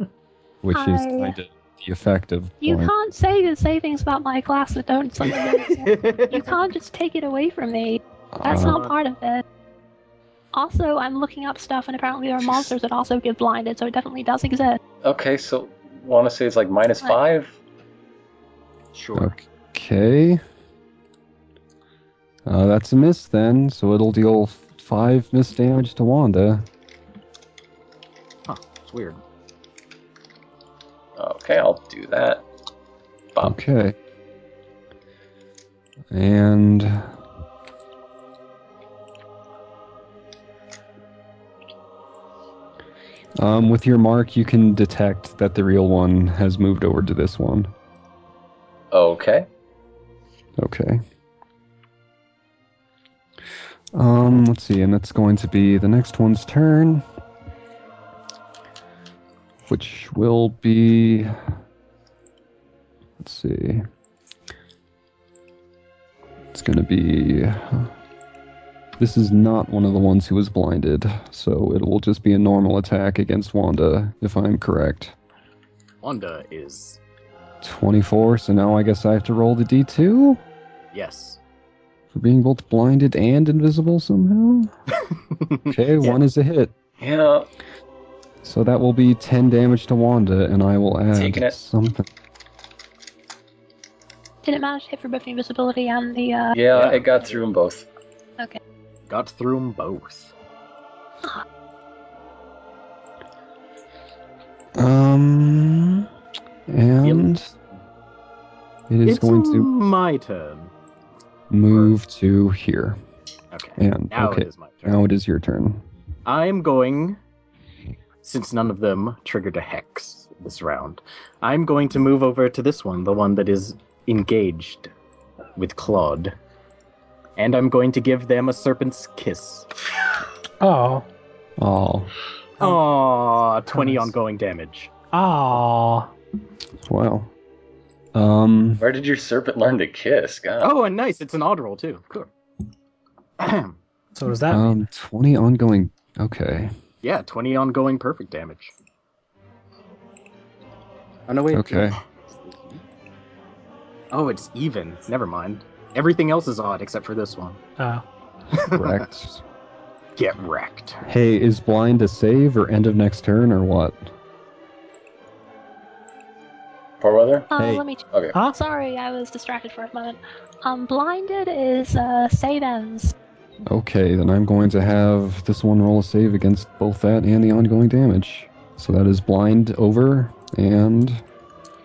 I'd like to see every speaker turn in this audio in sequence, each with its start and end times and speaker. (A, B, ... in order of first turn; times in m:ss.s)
0:00.6-0:02.9 A
0:00.7-0:01.4 B
0:02.6-0:09.4 B
0:05.2-0:06.6 C
0:08.4-0:08.8 A
0:08.5-0:09.0 C
0:10.5-0:14.8 B
0:15.0-0:17.6 D
0:18.9-0:19.4 C
0:19.2-0:20.4 A
0:22.5-0:26.7 A
0:28.5-0:29.2 C
0:31.2-0:32.4 D
0:33.4-0:34.0 A
0:36.1-0:37.1 A
0:43.4-0:47.7 A
0:48.9-0:49.5 D
0:50.6-0:51.0 A
0:53.9-0:57.0 A
0:59.7-1:01.4 A
1:03.2-1:03.9 A
1:06.5-1:07.9 A
1:09.0-1:15.2 A
1:16.0-1:17.0 C
1:17.6-1:20.4 A
1:20.9-1:21.4 C
1:22.1-1:24.7 A
1:25.7-1:26.7 A
1:27.0-1:27.5 D
1:28.4-1:32.1 A
1:31.1-1:31.6 D
1:34.4-1:36.6 B
1:36.5-1:37.9 D
1:36.7-1:37.4 C
1:39.1-1:40.3 C
1:44.8-1:46.1 A
1:46.7-1:47.5 A
1:48.9-1:49.7 A
1:49.0-1:50.7 C
1:51.5-1:53.0 A
1:53.5-1:55.1 C
1:53.8-1:55.9 A
1:56.2-1:57.2 C
1:58.2-2:04.9 C
2:05.6-2:06.4 C
2:07.4-2:09.7 C
2:10.6-2:11.1 E
2:11.6-2:12.1 A
2:12.6-2:14.9 C
2:13.7-2:14.1 E
2:15.1-2:16.1 E
2:16.8-2:17.3 A
2:18.1-2:18.8 A
2:18.8-2:20.7 D
2:20.6-2:22.3 C
2:23.4-2:23.8 C
2:24.2-2:24.8 E
2:24.5-2:26.7 A
2:27.0-2:28.7 C
2:31.3-2:32.8 C
2:31.5-2:32.0 A
2:34.1-2:37.6 C
2:37.8-2:38.0 E
2:38.5-2:39.0 C
2:38.7-2:39.4 A
2:40.2-2:41.0 C
2:41.0-2:44.1 A
2:47.0-2:47.5 D
2:47.5-2:53.1 B
2:47.6-2:47.8 A
2:53.7-3:01.2 A